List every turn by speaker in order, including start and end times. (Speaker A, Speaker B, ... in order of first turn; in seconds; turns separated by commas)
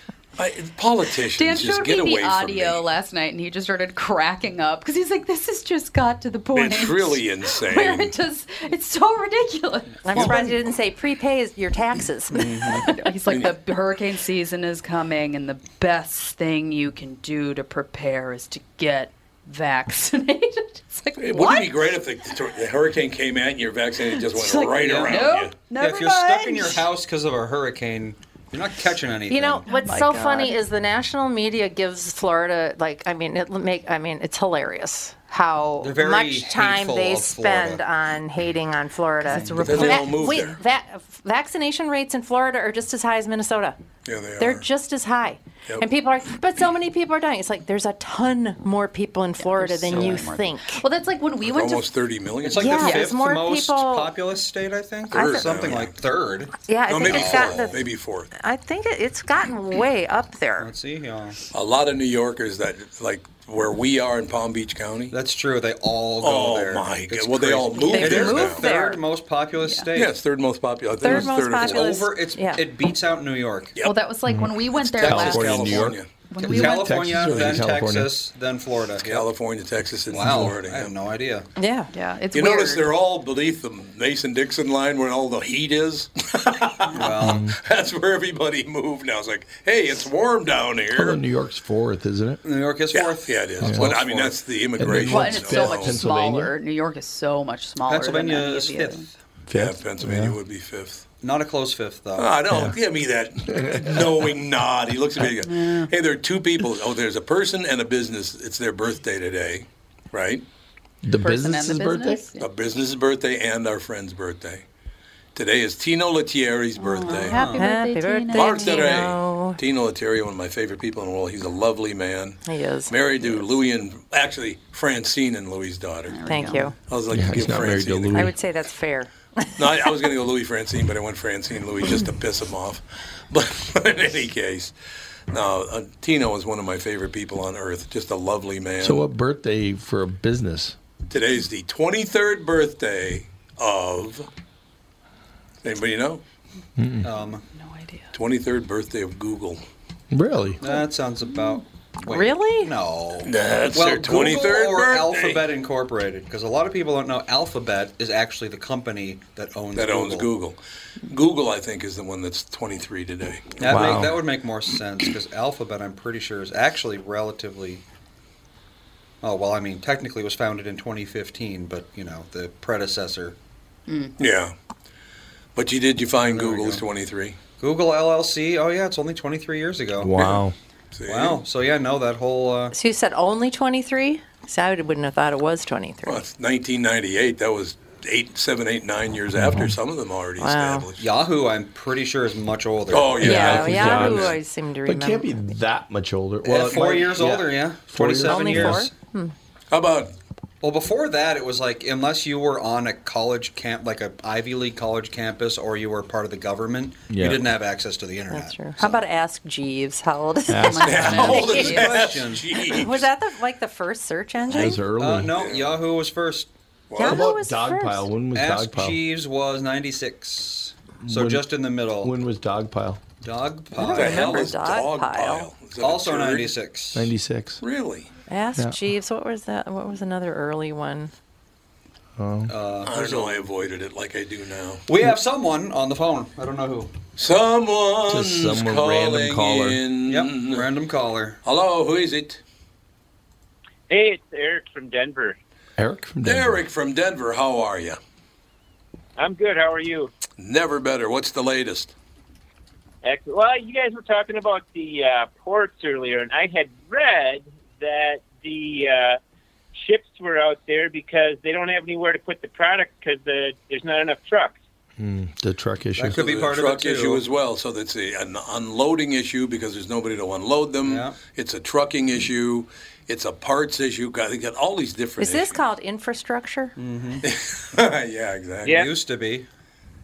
Speaker A: 0.4-2.9, Speaker B: 1.3-10.6, Speaker A: 6.5-8.2, Speaker C: 10.1-12.8, Speaker D: 12.3-12.9, Speaker B: 12.5-21.7, Speaker A: 13.3-13.6, Speaker A: 21.2-25.6, Speaker B: 24.1-26.9, Speaker D: 24.7-25.2, Speaker D: 25.8-29.6, Speaker C: 29.3-43.8, Speaker B: 29.7-30.6, Speaker D: 35.8-37.8, Speaker B: 39.2-40.3, Speaker A: 39.6-40.6, Speaker A: 44.0-44.6, Speaker C: 44.4-50.8, Speaker B: 49.4-51.9, Speaker A: 51.4-52.9, Speaker D: 52.4-57.8, Speaker C: 52.6-54.1, Speaker B: 52.8-53.1, Speaker A: 55.1-55.9, Speaker C: 55.1-55.5, Speaker C: 56.7-57.8, Speaker A: 56.9-58.3, Speaker C: 58.4-60.7, Speaker D: 60.6-61.4, Speaker A: 61.5-65.2, Speaker D: 65.1-70.2, Speaker A: 66.2-68.7, Speaker C: 67.8-69.0, Speaker B: 69.6-69.9, Speaker A: 70.0-72.0, Speaker C: 71.0-72.7, Speaker D: 71.0-73.8, Speaker B: 73.8-77.3, Speaker A: 74.8-76.1, Speaker D: 75.0-79.3, Speaker E: 75.0-78.1, Speaker A: 77.2-77.7, Speaker A: 79.0-81.0, Speaker D: 80.1-81.5, Speaker E: 80.2-80.5, Speaker C: 81.6-81.9, Speaker B: 81.9-82.9, Speaker A: 82.3-91.2, Speaker D: 87.0-87.5, Speaker E: 87.2-87.6, Speaker E: 90.9-92.4, Speaker D: 92.4-94.3, Speaker A: 92.9-96.0, Speaker E: 93.6-94.0, Speaker E: 94.8-96.5, Speaker B: 95.0-99.1, Speaker D: 97.9-99.1, Speaker E: 99.5-100.4, Speaker A: 99.5-101.0, Speaker D: 101.2-102.3, Speaker A: 102.2-110.4, Speaker E: 102.5-102.8, Speaker E: 103.5-104.2, Speaker B: 105.4-105.9, Speaker E: 111.0-112.2, Speaker B: 111.1-112.5, Speaker A: 112.4-114.7, Speaker A: 115.3-117.4, Speaker B: 116.8-119.0, Speaker D: 117.3-117.7, Speaker C: 117.5-119.6, Speaker A: 118.3-128.3, Speaker C: 122.5-123.5, Speaker B: 126.1-126.7, Speaker C: 126.3-126.7, Speaker E: 127.1-128.3, Speaker C: 128.1-129.6, Speaker A: 129.6-134.7, Speaker A: 135.3-139.1, Speaker E: 138.8-140.8, Speaker A: 141.1-144.3, Speaker A: 145.6-146.2, Speaker E: 146.8-147.1, Speaker D: 147.0-147.4, Speaker B: 147.5-148.1, Speaker A: 148.1-149.6, Speaker E: 150.1-150.6, Speaker D: 150.6-160.3, Speaker C: 152.1-152.7, Speaker A: 153.2-155.5, Speaker A: 159.8-163.9, Speaker D: 163.6-167.8, Speaker E: 163.7-164.2, Speaker D: 169.2-173.4, Speaker B: 173.9-174.1, Speaker A: 174.2-174.5, Speaker A: 175.6-177.4, Speaker D: 176.3-176.8, Speaker D: 177.6-180.2, Speaker E: 180.0-180.6, Speaker A: 180.2-180.4, Speaker A: 180.9-181.4, Speaker D: 181.1-182.8, Speaker C: 182.7-186.2, Speaker A: 186.1-191.1, Speaker E: 189.4-189.7, Speaker C: 190.4-190.9, Speaker D: 191.0-193.7, Speaker A: 192.9-194.4, Speaker E: 193.2-198.9, Speaker C: 193.2-195.4, Speaker D: 196.4-198.9, Speaker C: 198.2-199.3, Speaker A: 199.7-200.1, Speaker D: 200.6-209.0, Speaker E: 207.1-207.4, Speaker C: 208.3-211.7, Speaker E: 210.5-211.0, Speaker B: 210.6-211.9, Speaker A: 210.8-213.1, Speaker D: 211.2-212.6, Speaker C: 212.6-214.8, Speaker E: 214.5-215.4, Speaker D: 214.9-216.5, Speaker A: 215.3-215.8, Speaker A: 216.9-217.3, Speaker C: 217.0-218.1, Speaker E: 217.0-219.0, Speaker D: 218.3-222.1, Speaker E: 221.0-223.0, Speaker D: 223.2-224.6, Speaker C: 223.7-225.5, Speaker A: 223.9-226.6, Speaker D: 225.8-227.1, Speaker E: 226.9-227.6, Speaker A: 227.6-228.1, Speaker C: 228.3-231.1, Speaker E: 232.2-232.5, Speaker D: 232.5-233.4, Speaker A: 232.8-234.8, Speaker D: 234.9-236.9, Speaker A: 237.2-240.7, Speaker E: 238.1-239.8, Speaker D: 240.1-241.4, Speaker A: 241.4-242.4, Speaker F: 243.9-245.4, Speaker E: 245.8-246.6, Speaker A: 246.2-248.0, Speaker F: 249.2-250.1, Speaker A: 250.4-251.9, Speaker F: 253.0-259.2, Speaker F: 259.8-264.6, Speaker E: 265.0-266.2, Speaker D: 266.0-267.2, Speaker A: 266.1-275.6, Speaker D: 270.9-271.2, Speaker C: 275.2-276.8, Speaker D: 276.8-277.2, Speaker A: 277.2-278.9, Speaker F: 278.6-278.9, Speaker D: 278.7-279.5